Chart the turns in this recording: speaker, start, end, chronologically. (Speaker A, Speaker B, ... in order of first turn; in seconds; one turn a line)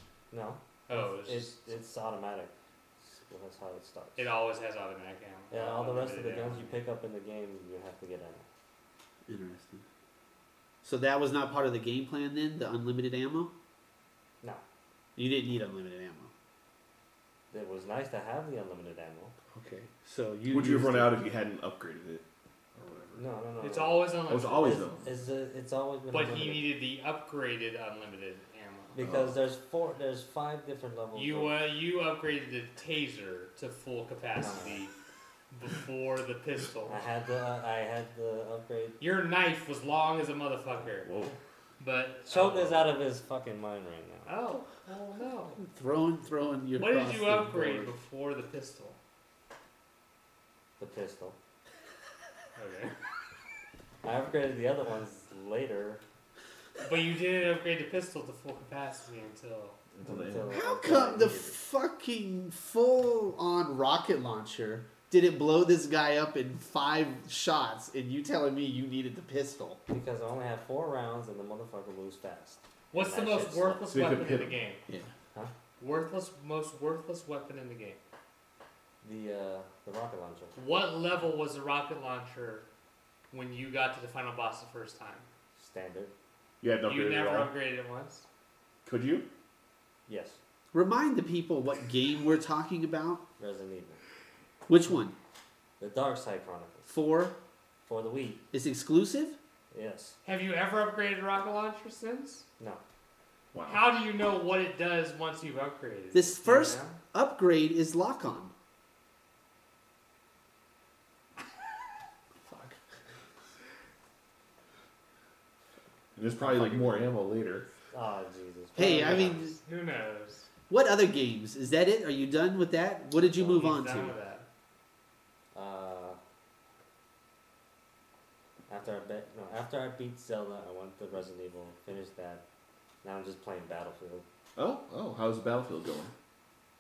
Speaker A: 0.3-2.5
Speaker B: 0.9-1.5
Speaker A: 3.0-4.3
Speaker B: 4.2-6.8
Speaker A: 5.5-8.4
Speaker C: 9.3-9.8
Speaker C: 10.8-13.5
Speaker C: 15.2-16.3
Speaker A: 17.5-19.3
Speaker C: 19.5-21.2
Speaker D: 20.5-22.2
Speaker D: 22.7-23.2
Speaker A: 23.1-26.7
Speaker B: 23.6-24.9
Speaker D: 24.3-25.1
Speaker B: 26.1-28.9
Speaker A: 28.9-31.6
Speaker D: 29.0-29.4
Speaker B: 31.1-34.9
Speaker A: 34.4-34.8
Speaker B: 35.5-37.0
Speaker A: 36.9-39.0
Speaker B: 39.0-41.1
Speaker D: 41.0-41.4
Speaker B: 41.8-42.9
Speaker A: 42.3-44.3
Speaker B: 44.2-45.6
Speaker C: 45.6-47.9
Speaker B: 46.8-49.0
Speaker A: 50.8-51.4
Speaker B: 52.5-52.9
Speaker A: 54.0-56.0
Speaker B: 56.8-59.8
Speaker D: 59.9-60.6
Speaker A: 60.0-61.6
Speaker C: 60.5-69.8
Speaker A: 69.9-73.8
Speaker B: 72.9-74.8
Speaker D: 73.9-74.5
Speaker B: 75.8-78.0
Speaker A: 79.0-80.5
Speaker B: 80.5-82.7
Speaker B: 83.3-85.3
Speaker A: 85.6-86.1
Speaker D: 86.6-87.5
Speaker B: 86.8-88.2
Speaker D: 88.8-89.3
Speaker A: 90.1-90.4
Speaker C: 90.7-93.2
Speaker A: 93.4-94.0
Speaker C: 94.7-95.2
Speaker A: 95.8-96.9
Speaker C: 96.9-97.3
Speaker A: 97.8-98.4
Speaker C: 98.5-99.4
Speaker A: 99.7-100.2
Speaker B: 100.2-102.4
Speaker D: 103.5-103.8
Speaker B: 103.6-106.7
Speaker C: 106.1-108.5
Speaker A: 106.4-107.0
Speaker D: 112.5-112.7
Speaker D: 116.2-117.7
Speaker A: 116.4-117.1
Speaker A: 117.9-119.4
Speaker C: 118.7-119.5
Speaker B: 118.8-120.5
Speaker C: 120.7-124.2
Speaker A: 123.4-123.7
Speaker B: 123.4-124.5
Speaker A: 125.5-126.2
Speaker A: 128.7-132.4
Speaker A: 133.0-134.2
Speaker D: 134.6-136.1